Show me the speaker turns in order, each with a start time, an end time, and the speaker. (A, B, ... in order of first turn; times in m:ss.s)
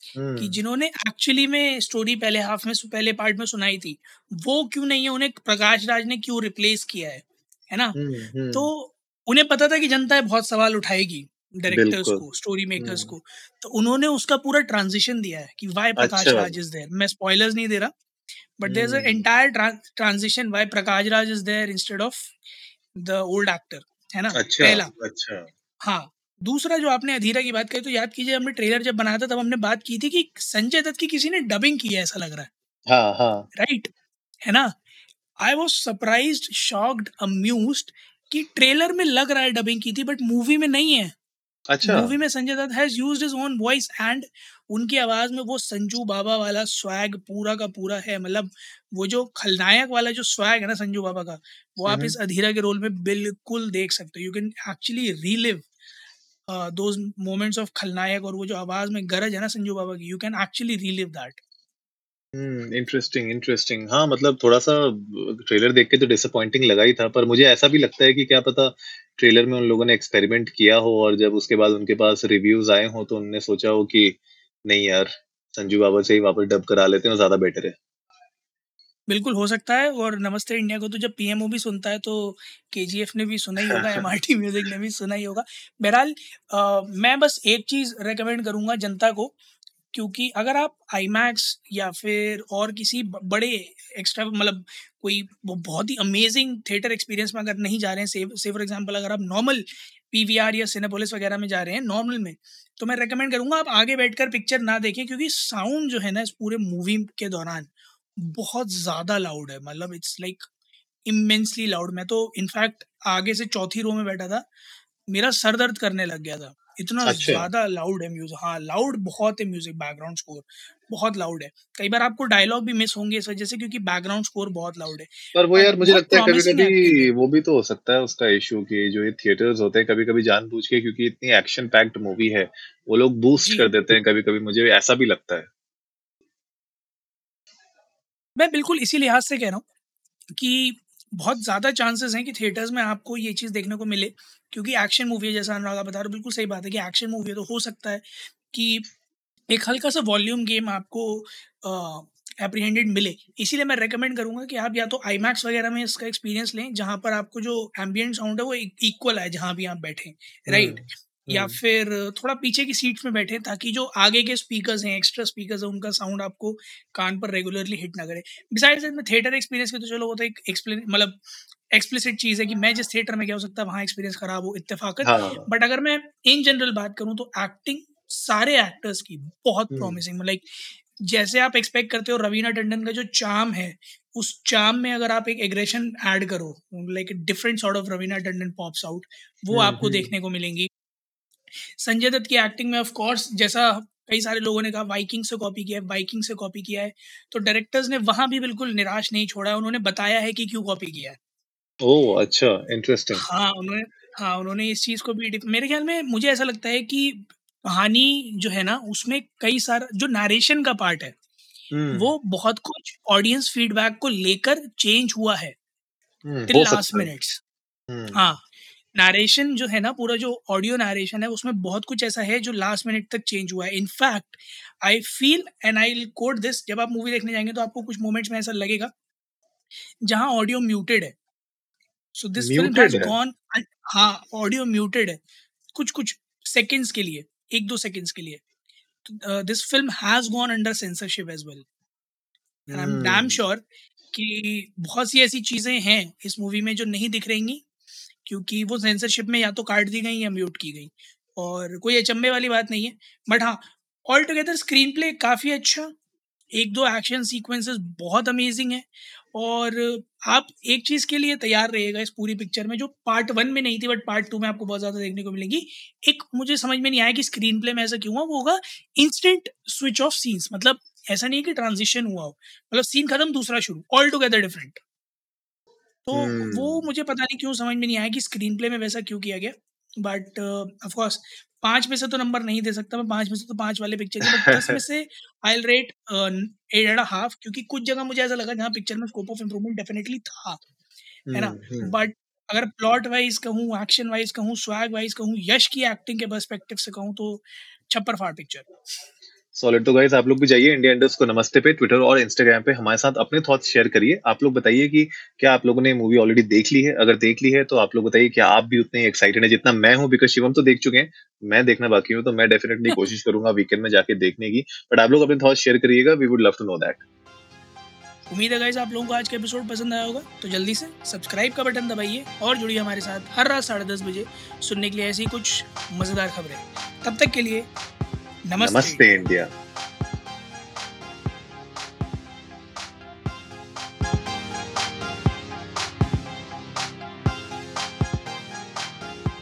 0:00.2-0:00.6 A
0:00.4-0:08.0 B
0:08.0-0:08.7 A
0:08.5-0:17.9 B
0:11.7-0:12.2 A
0:12.8-0:13.1 A
0:16.0-0:16.6 A
0:18.6-0:22.4 B
0:18.6-0:19.3 A
0:23.0-0:24.9 B
0:24.3-0:25.5 A
0:25.8-0:32.5 B
0:32.9-0:33.5 A
0:33.6-0:33.9 B
0:34.4-0:34.7 B
0:35.4-0:41.1 B
0:41.7-0:42.1 A
0:41.8-0:55.6 B
0:51.8-0:52.2 A
0:56.5-1:01.4 B
1:02.3-1:17.8 A
1:19.1-1:29.3 B
1:23.7-1:24.0 A
1:29.9-1:50.4 B
1:51.0-1:54.5 B
1:55.1-2:07.1 B
1:57.0-1:57.5 A
2:05.3-2:15.5 A
2:13.4-2:13.7 B
2:18.4-2:19.6 B
2:20.4-2:28.9 B
2:29.5-3:10.7 B
2:40.5-2:41.6 A
2:55.0-2:55.5 A
2:59.7-3:00.0 A
3:09.5-3:10.1 A
3:11.8-3:21.2 B
3:21.8-3:23.2 A
3:23.2-3:31.1 B
3:31.7-3:32.1 A
3:31.9-3:35.5 B
3:36.2-3:37.1 A
3:36.5-3:37.4 B
3:37.9-3:38.3 A
3:38.1-3:38.4 B
3:38.9-3:48.9 B
3:50.0-3:51.1 B
3:52.1-3:55.2 B
3:52.4-3:53.1 A
3:55.7-3:58.4 B
3:59.0-4:01.6 B
4:02.7-4:03.4 A
4:02.7-4:07.6 B
4:08.2-4:15.9 B
4:16.5-4:34.8 B
4:36.0-4:50.6 B
4:36.1-4:36.8 A
4:44.2-4:44.8 A
4:51.3-4:52.0 A
4:51.3-4:58.7 B
4:59.5-5:17.0 A
5:18.3-5:27.7 B
5:28.4-5:29.2 B
5:28.6-5:29.5 A